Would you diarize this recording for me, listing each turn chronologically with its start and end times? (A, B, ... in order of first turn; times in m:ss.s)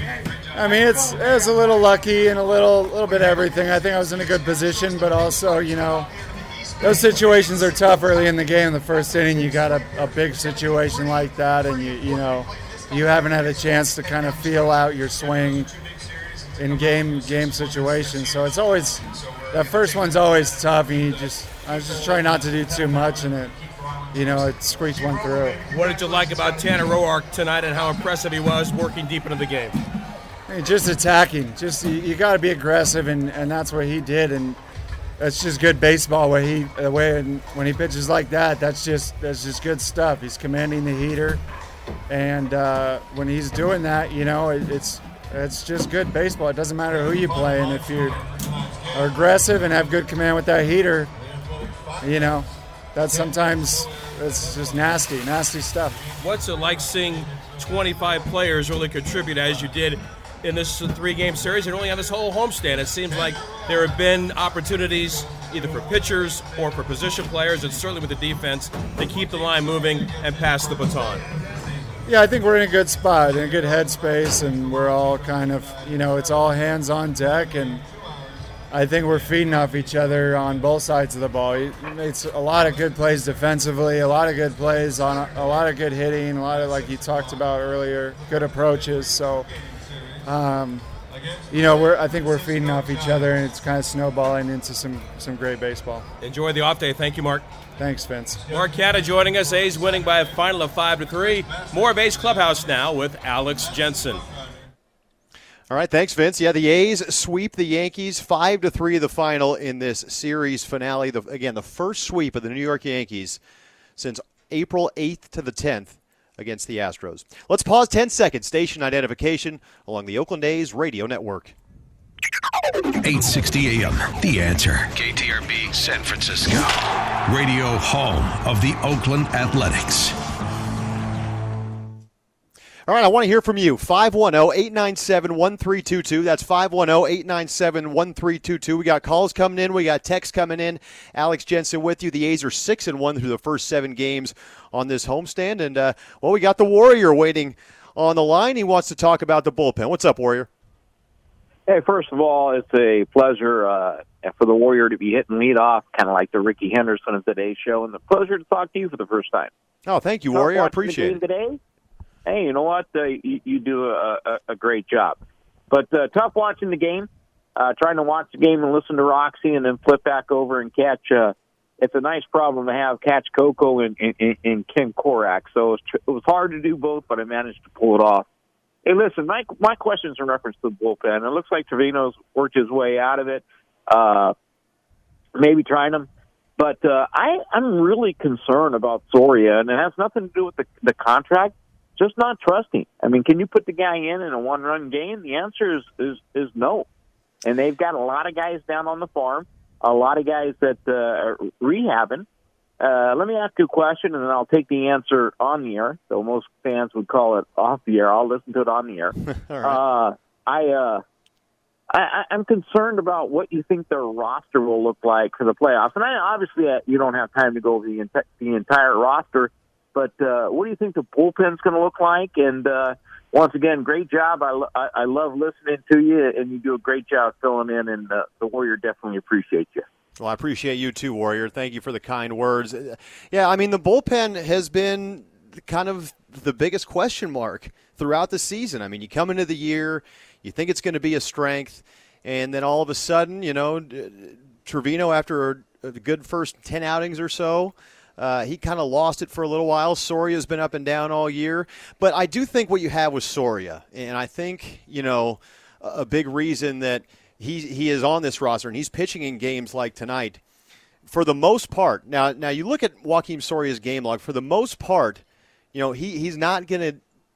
0:00.5-0:06.1 A
0:06.8-0:15.7 A
0:16.6-0:23.5 A
0:24.1-0:25.6 A
0:25.7-0:29.8 B
0:30.5-0:34.6 A
0:35.2-0:41.4 A
0:42.1-0:48.2 A
0:48.9-0:51.1 A
0:52.0-0:56.1 A
0:56.2-1:11.3 B
1:12.0-1:17.8 A
1:18.7-1:29.5 A
1:30.2-1:30.8 A
1:31.5-1:36.0 A
1:36.2-1:37.5 B
1:37.8-1:38.5 A
1:38.5-1:44.2 B
1:45.7-1:53.4 C
1:54.0-2:01.5 C
2:03.0-2:06.7 D
2:07.2-2:10.1 D
2:12.9-2:30.5 C
2:31.7-2:39.5 E
2:39.8-2:41.2 C
2:40.3-2:41.6 E
2:42.2-2:45.2 E
2:45.7-2:58.2 E
2:58.8-3:04.3 E
3:05.4-3:16.8 E
3:17.4-3:22.3 E
3:22.8-3:31.0 E
3:29.2-3:29.8 C
3:31.9-3:49.8 E
3:50.2-4:20.4 C
4:21.0-4:25.2 C
4:25.7-4:27.0 C